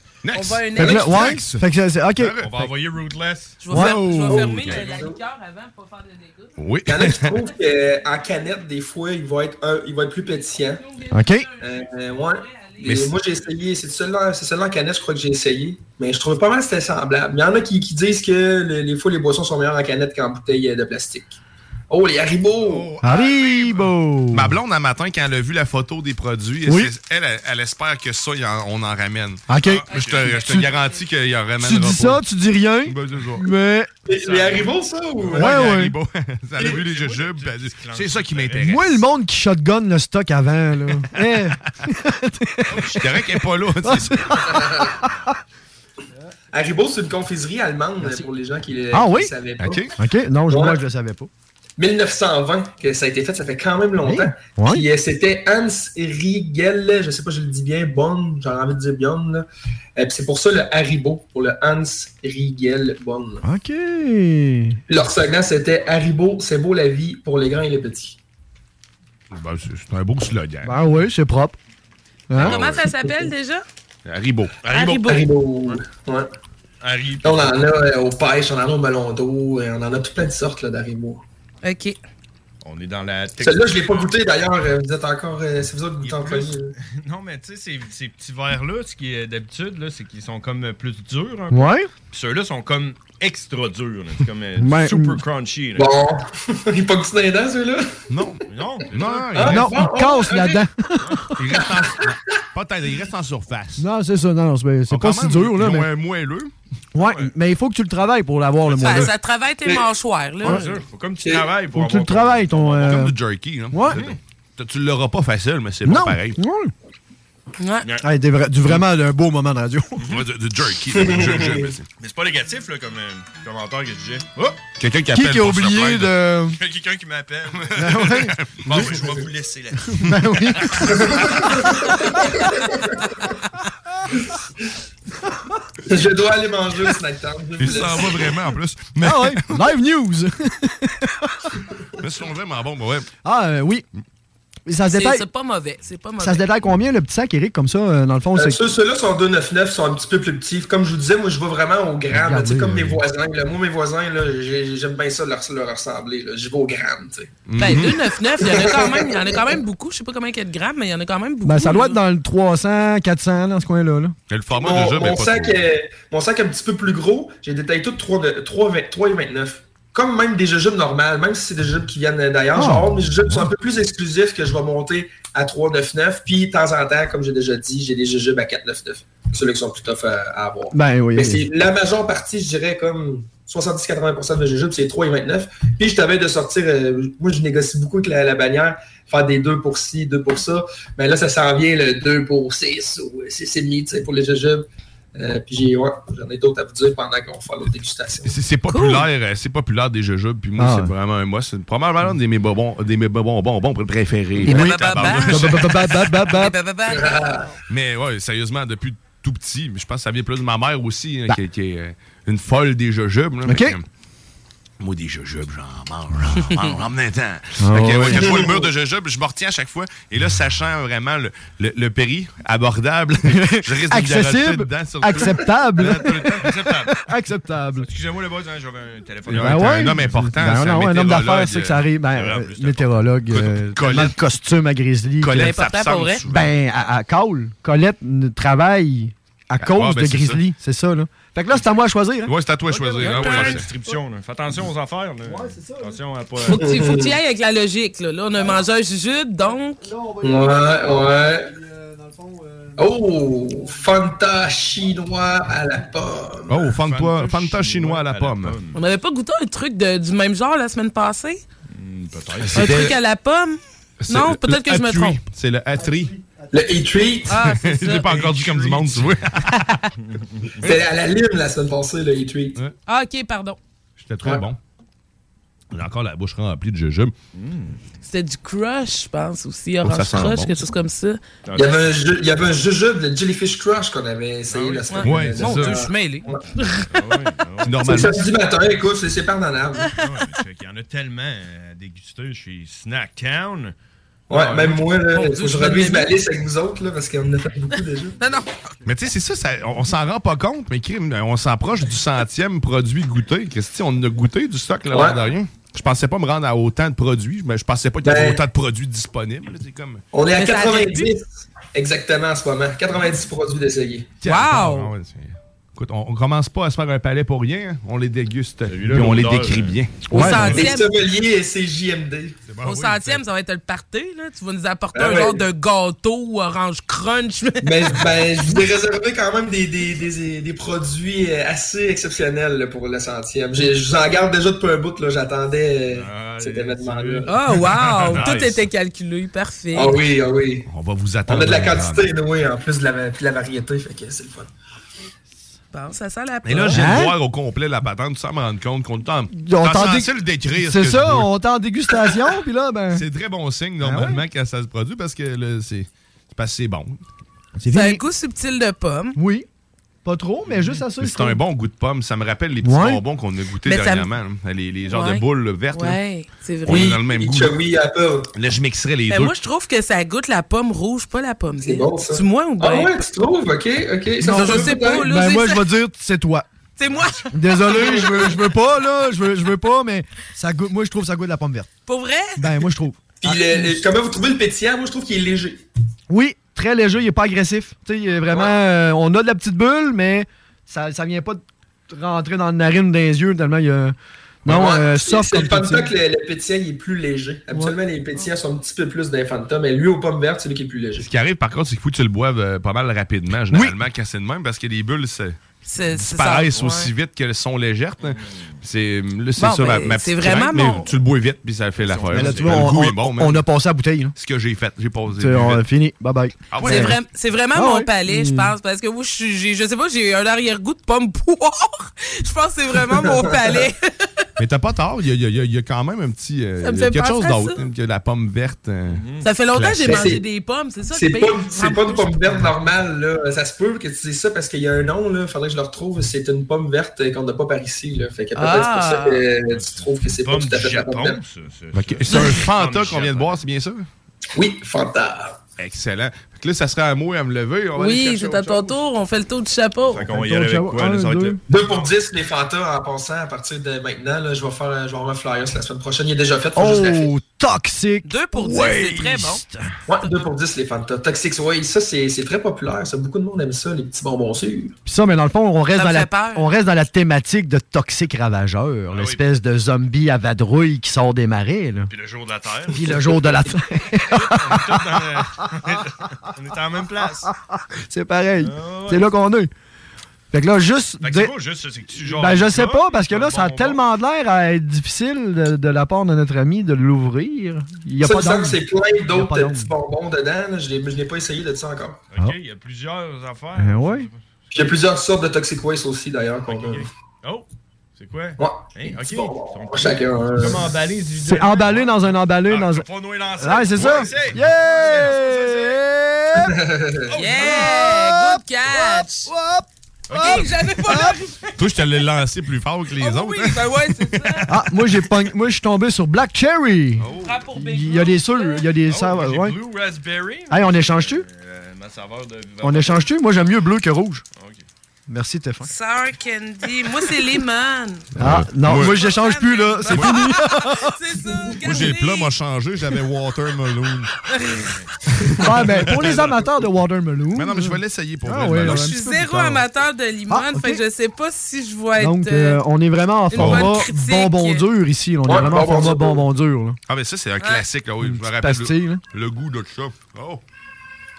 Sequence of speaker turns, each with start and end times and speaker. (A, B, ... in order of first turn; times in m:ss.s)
0:00.2-0:02.5 A
0:00.3-0:01.4 B
0:00.8-0:02.7 C
0:02.4-0:03.7 D
0:03.6-0:06.5 B
0:03.7-0:04.3 C
0:03.7-0:04.8 A
0:04.3-0:05.2 E
0:06.6-0:07.3 A
0:06.9-0:10.8 E
0:10.8-0:13.0 B
0:11.1-0:11.5 C
0:11.6-0:22.9 E
0:12.8-0:13.1 A
0:23.0-0:24.6 C
0:23.0-0:23.7 D
0:23.1-0:32.2 A
0:26.7-0:26.9 C
0:29.5-0:29.9 C
0:29.6-0:30.5 D
0:29.9-0:31.1 B
0:31.6-0:33.9 C
0:32.8-0:33.5 A
0:34.1-0:35.5 E
0:34.2-0:35.4 D
0:35.3-0:36.0 C
0:35.4-0:39.0 A
0:36.6-0:38.7 D
0:38.6-0:42.9 C
0:42.8-0:44.4 A
0:43.8-0:45.3 C
0:44.5-0:44.9 E
0:46.5-0:49.8 E
0:48.9-0:49.3 C
0:49.6-0:49.9 A
0:50.0-0:51.3 C
0:50.5-0:50.8 E
0:51.8-0:59.4 E
0:54.0-0:54.9 C
1:00.0-1:03.4 E
1:03.4-1:04.8 C
1:04.9-1:08.2 E
1:09.3-1:10.8 A
1:10.6-1:11.6 C
1:12.3-1:12.6 C
1:12.4-1:12.8 A
1:12.5-1:13.6 B
1:12.9-1:13.3 E
1:14.0-1:14.5 A
1:14.6-1:15.0 D
1:14.7-1:15.2 B
1:15.0-1:16.3 E
1:16.8-1:17.6 D
1:17.2-1:21.2 E
1:21.6-1:22.0 B
1:22.6-1:24.1 D
1:23.4-1:26.7 E
1:26.0-1:35.9 D
1:31.5-1:31.9 C
1:34.6-1:35.2 C
1:35.8-1:37.9 E
1:38.1-1:39.7 A
1:38.5-1:39.5 D
1:39.3-1:40.6 E
1:39.4-1:41.4 C
1:41.0-1:41.3 D
1:41.4-1:43.9 A
1:41.5-1:42.1 E
1:43.8-1:45.9 C
1:44.9-1:46.5 A
1:46.9-1:49.1 C
1:47.0-1:47.3 D
1:48.7-1:49.0 D
1:48.8-1:50.7 B
1:50.4-1:50.7 C
1:50.4-1:52.9 D
1:51.2-1:51.5 E
1:51.7-1:53.2 C
1:52.8-1:56.4 A
1:53.7-1:54.0 C
1:53.9-1:54.2 D
1:55.9-1:56.7 C
1:57.6-1:57.9 B
1:58.0-2:00.0 C
2:00.0-2:01.8 A
2:01.0-2:01.6 E
2:02.0-2:04.6 D
2:04.8-2:06.2 A
2:05.1-2:06.6 C
2:06.6-2:08.1 D
2:07.7-2:08.9 C
2:07.8-2:08.8 A
2:08.6-2:10.9 D
2:09.9-2:12.4 C
2:10.9-2:13.0 E
2:15.9-2:18.4 E
2:17.6-2:19.7 A
2:19.0-2:21.5 C
2:22.0-2:23.1 A
2:23.2-2:23.8 C
2:24.7-2:25.2 C
2:24.9-2:26.5 B
2:26.2-2:28.6 C
2:28.4-2:37.3 E
2:32.1-2:33.0 C
2:37.5-2:38.0 A
2:37.6-2:42.0 B
2:38.4-2:39.5 E
2:41.4-2:44.2 C
2:44.3-2:45.6 A
2:44.5-3:18.3 E
2:52.6-2:53.4 C
3:00.7-3:01.4 C
3:18.2-3:25.9 A
3:18.7-3:19.1 B
3:20.6-3:20.9 C
3:24.4-3:26.6 C
3:24.5-3:27.1 B
3:26.9-3:27.5 E
3:27.7-3:33.8 A
3:33.5-3:33.8 C
3:34.8-3:46.5 A
3:36.4-3:36.8 B
3:37.6-3:38.6 C
3:38.2-3:38.6 E
3:43.3-3:47.9 C
3:46.4-3:47.0 D
3:47.8-3:50.2 D
3:49.3-3:51.8 A
3:49.3-3:55.5 C
3:52.1-3:53.1 D
3:53.3-3:54.2 A
3:55.2-3:56.5 A
3:55.4-3:56.2 B
3:56.3-4:03.1 C
3:59.6-4:00.4 A
4:02.3-4:03.7 A
4:02.8-4:06.6 D
4:03.1-4:03.6 B
4:05.2-4:06.0 C
4:06.4-4:07.1 E
4:06.5-4:09.9 B
4:09.5-4:12.9 C
4:10.2-4:11.5 E
4:12.8-4:16.6 E
4:16.5-4:18.6 A
4:16.6-4:18.8 D
4:18.8-4:21.4 B
4:21.7-4:22.8 D
4:22.5-4:23.0 A
4:22.5-4:25.2 B
4:24.0-4:26.1 A
4:25.8-4:27.0 C
4:26.5-4:27.4 E
4:27.3-4:28.2 B
4:27.4-4:29.5 A
4:28.0-4:29.2 D
4:29.5-4:29.9 B
4:30.0-4:30.7 D
4:30.6-4:32.6 E
4:32.9-4:33.6 B
4:34.0-4:34.6 A
4:35.7-4:37.1 A
4:37.3-4:37.8 D
4:38.0-4:41.2 B
4:39.8-4:40.6 A
4:41.4-4:41.9 D
4:41.6-4:46.4 E
4:44.5-4:45.3 D
4:45.0-4:45.8 A
4:45.4-4:46.9 B
4:46.9-4:48.0 D
4:47.6-4:48.2 A
4:47.8-4:49.9 E
4:50.0-4:53.7 D
4:54.3-4:58.1 E
4:54.3-4:54.9 D
4:55.1-4:56.1 B
4:58.2-4:58.5 B
4:58.8-5:10.0 A
5:04.9-5:05.2 E
5:08.0-5:08.4 E
5:10.1-5:14.1 E
5:10.3-5:11.1 B
5:14.2-5:20.4 A
5:14.2-5:14.9 B
5:18.7-5:19.8 D
5:20.1-5:20.5 C
5:20.1-5:22.4 E
5:20.1-5:20.9 B
5:22.5-5:23.2 A
5:22.6-5:28.1 B
5:24.9-5:25.4 E
5:27.6-5:37.3 E
5:35.9-5:38.5 D
5:37.3-5:40.0 B
5:38.1-5:38.6 A
5:39.7-5:40.7 E
5:40.7-5:42.1 A
5:41.3-5:44.5 E
5:45.7-5:47.0 B
5:46.4-5:51.3 A
5:46.7-5:47.2 C
5:49.3-5:53.0 C
5:52.9-5:57.0 A
5:53.8-5:54.2 C
5:57.6-5:58.0 C
5:57.7-5:59.2 B
5:59.2-5:59.5 C
6:00.0-6:01.4 C
6:00.5-6:00.8 D
6:01.0-6:06.0 A
6:02.6-6:03.0 C
6:03.6-6:04.1 B
6:04.9-6:06.9 B
6:06.6-6:07.5 A
6:06.7-6:08.3 E
6:08.3-6:09.4 A
6:09.1-6:12.9 B
6:11.6-6:15.0 E
6:14.2-6:16.5 C
6:14.3-6:15.7 B
6:16.8-6:18.4 B
6:17.3-6:21.7 C
6:17.7-6:18.1 E
6:21.9-6:22.4 B
6:22.4-6:23.8 C
6:23.2-6:25.6 E
6:26.1-6:33.9 C
6:34.4-6:35.9 C
6:34.5-6:41.1 E
6:41.0-6:45.4 A
6:45.7-6:46.9 B
6:45.9-6:53.4 A
6:48.0-6:48.4 D
6:49.4-6:50.9 B
6:51.8-6:52.7 D
6:52.1-6:54.1 C
6:54.2-6:55.6 A
6:55.2-6:57.0 C
6:56.5-6:57.0 A
6:56.6-7:04.2 B
6:57.6-6:58.5 C
7:02.9-7:03.6 E
7:04.4-7:10.0 A
7:06.6-7:07.6 B
7:08.9-7:09.3 D
7:09.2-7:12.1 B
7:09.9-7:10.2 E
7:10.9-7:21.2 E
7:12.2-7:12.5 D
7:18.4-7:19.3 B
7:19.5-7:23.4 D
7:21.7-7:23.9 A
7:22.1-7:22.4 B
7:24.4-7:25.4 E
7:25.6-7:28.8 A
7:27.8-7:30.1 B
7:29.9-7:32.0 D
7:30.0-7:31.4 C
7:31.5-7:37.1 E
7:36.6-7:39.6 C
7:38.0-7:39.4 B
7:39.9-7:44.8 E
7:44.8-7:51.9 C
7:45.7-7:46.6 B
7:48.9-7:49.2 D
7:51.9-7:53.4 D
7:52.7-7:55.5 C
7:54.1-7:57.3 D
7:57.0-7:59.5 C
7:58.4-7:59.2 D
8:00.3-8:01.4 C
8:01.0-8:03.8 D
8:02.0-8:09.7 C
8:08.0-8:12.0 E
8:12.1-8:14.7 D
8:13.6-8:14.1 C
8:14.5-8:16.9 E
8:16.5-8:25.8 D
8:18.4-8:20.7 E
8:21.2-8:22.9 C
8:23.4-8:26.5 C
8:26.5-8:27.2 E
8:27.1-8:27.7 D
8:27.2-8:29.3 B
8:27.4-8:31.2 C
8:30.1-8:30.5 D
8:30.1-8:31.5 B
8:31.6-8:34.5 A
8:33.0-8:34.5 B
8:34.5-8:39.6 C
8:37.0-8:37.4 D
8:37.2-8:38.7 B
8:38.8-8:43.1 D
8:40.5-8:41.3 C
8:42.6-8:44.2 C
8:44.4-8:44.6 D
8:45.1-8:45.7 C
8:45.6-8:48.1 B
8:48.2-8:49.0 A
8:48.2-8:50.9 C
8:48.8-8:52.3 B
8:49.9-8:50.3 A
8:51.6-8:54.1 A
8:54.3-8:54.8 B
8:55.4-8:59.6 C
8:55.8-8:56.2 A
8:57.3-8:58.9 A
8:58.7-9:02.6 B
9:00.3-9:00.8 C
9:02.0-9:06.8 C
9:03.3-9:04.6 B
9:03.4-9:03.7 A
9:05.3-9:06.2 E
9:06.9-9:10.4 A
9:07.4-9:07.7 B
9:08.0-9:09.0 C